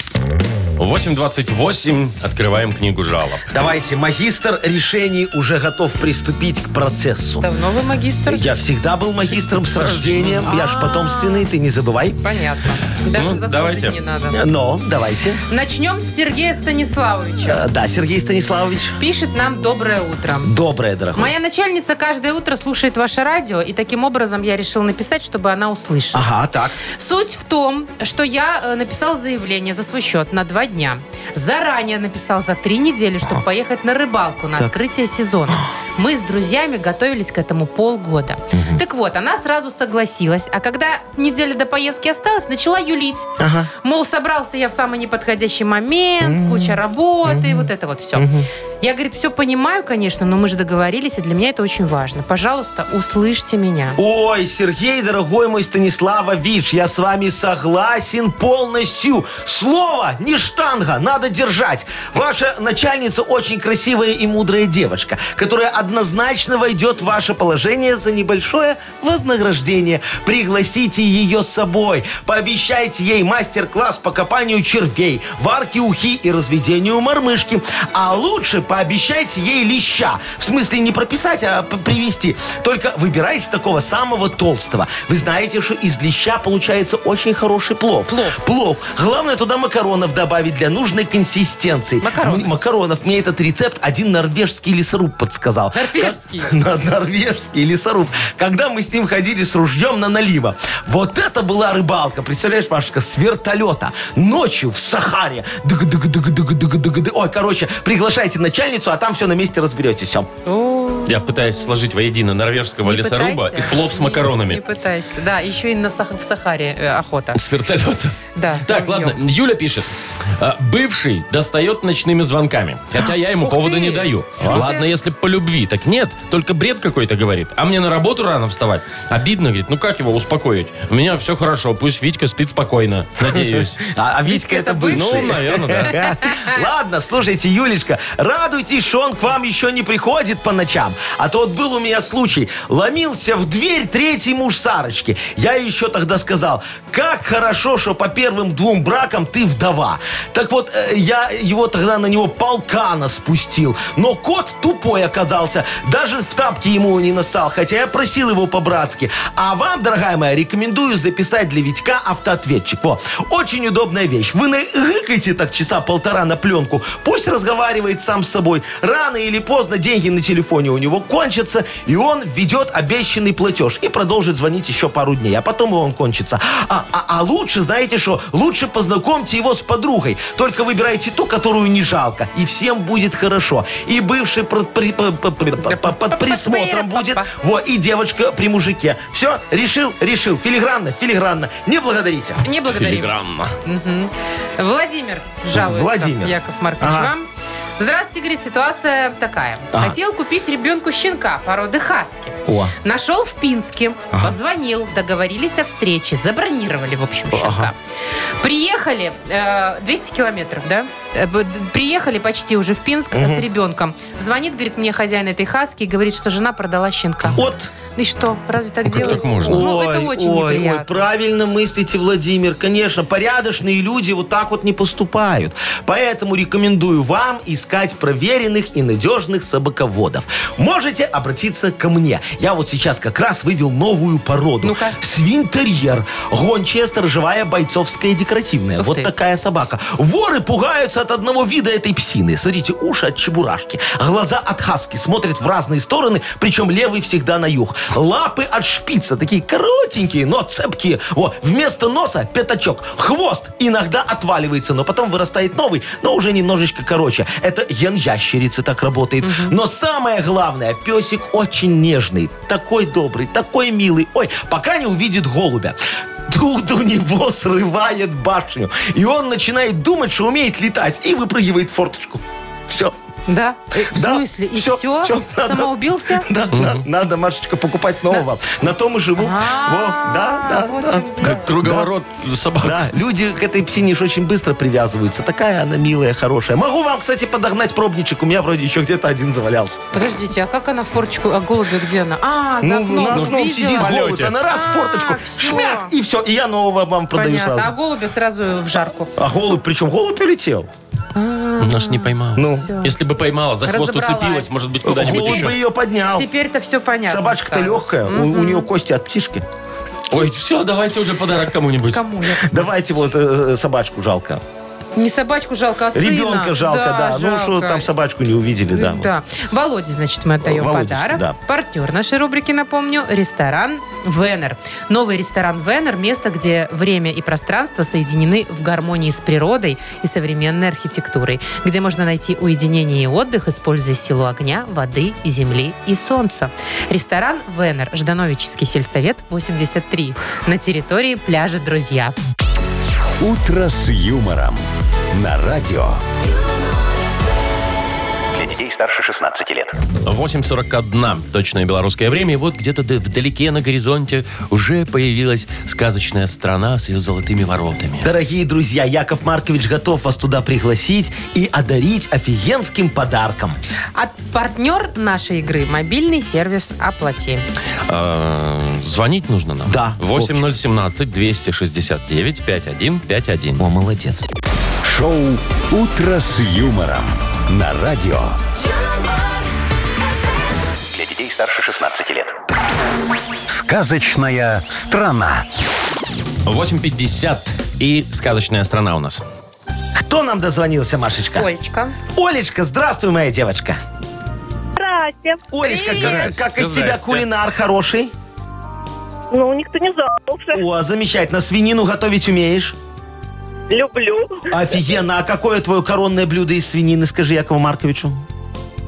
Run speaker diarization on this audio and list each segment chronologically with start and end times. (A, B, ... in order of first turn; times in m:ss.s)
0:00.8-0:03.5 A
0:03.5-0:07.4 B
0:07.4-0:08.5 C
0:08.3-0:12.2 B
0:09.7-0:10.5 A
0:10.4-0:11.5 C
0:12.2-0:14.4 C
0:13.1-0:14.0 A
0:14.3-0:15.4 B
0:15.5-0:17.6 C
0:17.4-0:19.0 B
0:19.0-0:20.5 C
0:20.4-0:21.3 B
0:21.1-0:26.3 C
0:26.1-0:26.8 B
0:26.8-0:43.3 C
0:38.5-0:38.8 B
0:43.4-0:43.7 B
0:43.8-0:48.3 C
0:46.2-0:48.5 B
0:48.8-0:54.0 C
0:54.0-1:50.3 B
1:28.1-1:28.4 C
1:32.0-1:32.5 C
1:35.7-1:36.5 C
1:50.4-1:51.2 C
1:51.0-1:54.6 A
1:52.8-1:57.4 C
1:57.3-2:13.8 A
1:58.4-1:59.2 C
2:03.4-2:04.8 C
2:04.4-2:04.7 B
2:13.3-3:12.4 B
2:14.2-2:15.3 C
2:14.9-2:16.0 A
2:15.9-2:16.6 C
3:05.6-3:07.3 C
3:12.4-3:13.1 C
3:12.7-3:13.6 A
3:13.6-3:27.7 C
3:15.5-3:17.1 B
3:22.5-3:22.7 B
3:27.3-3:27.7 B
3:28.4-3:37.4 C
3:33.1-3:33.4 B
3:37.3-3:37.7 B
3:37.9-3:41.0 C
3:38.8-3:39.6 A
3:38.9-4:32.9 B
3:54.6-3:55.0 C
3:58.8-3:59.1 C
4:19.2-4:19.6 C
4:33.3-4:36.3 C
4:33.8-4:41.9 B
4:36.5-4:36.8 A
4:39.2-4:41.5 C
4:41.2-4:42.9 A
4:42.6-4:49.8 B
4:49.9-4:54.0 C
4:52.6-4:57.7 B
4:53.1-4:54.3 A
4:54.5-4:55.9 C
4:57.1-4:59.1 C
4:59.2-5:00.7 B
5:01.1-5:02.9 C
5:01.6-5:05.6 A
5:02.4-5:02.7 B
5:03.6-5:04.5 C
5:04.8-5:06.3 B
5:05.0-5:05.5 C
5:06.1-5:08.7 C
5:07.0-5:09.4 B
5:10.1-5:12.0 A
5:11.9-5:12.7 C
5:12.4-5:14.4 B
5:15.0-5:17.9 C
5:15.9-5:19.1 B
5:18.7-5:42.1 C
5:20.4-5:21.4 B
5:43.2-5:46.0 D
5:48.3-5:49.8 E
5:50.0-5:58.1 A
5:58.0-6:03.6 B
6:03.9-6:07.4 C
6:07.9-6:13.6 A
6:09.6-6:10.4 B
6:13.6-6:14.2 B
6:14.8-6:18.4 D
6:20.9-6:22.3 E
6:23.5-6:25.4 D
6:26.4-6:29.2 A
6:29.9-6:31.5 B
6:31.3-6:31.9 C
6:32.1-6:33.8 B
6:34.8-6:35.4 F
6:35.5-6:38.1 B
6:35.6-6:36.3 C
6:35.9-6:37.2 A
6:39.3-6:40.6 F
6:40.5-6:42.8 B
6:43.7-6:44.5 F
6:44.5-6:48.2 B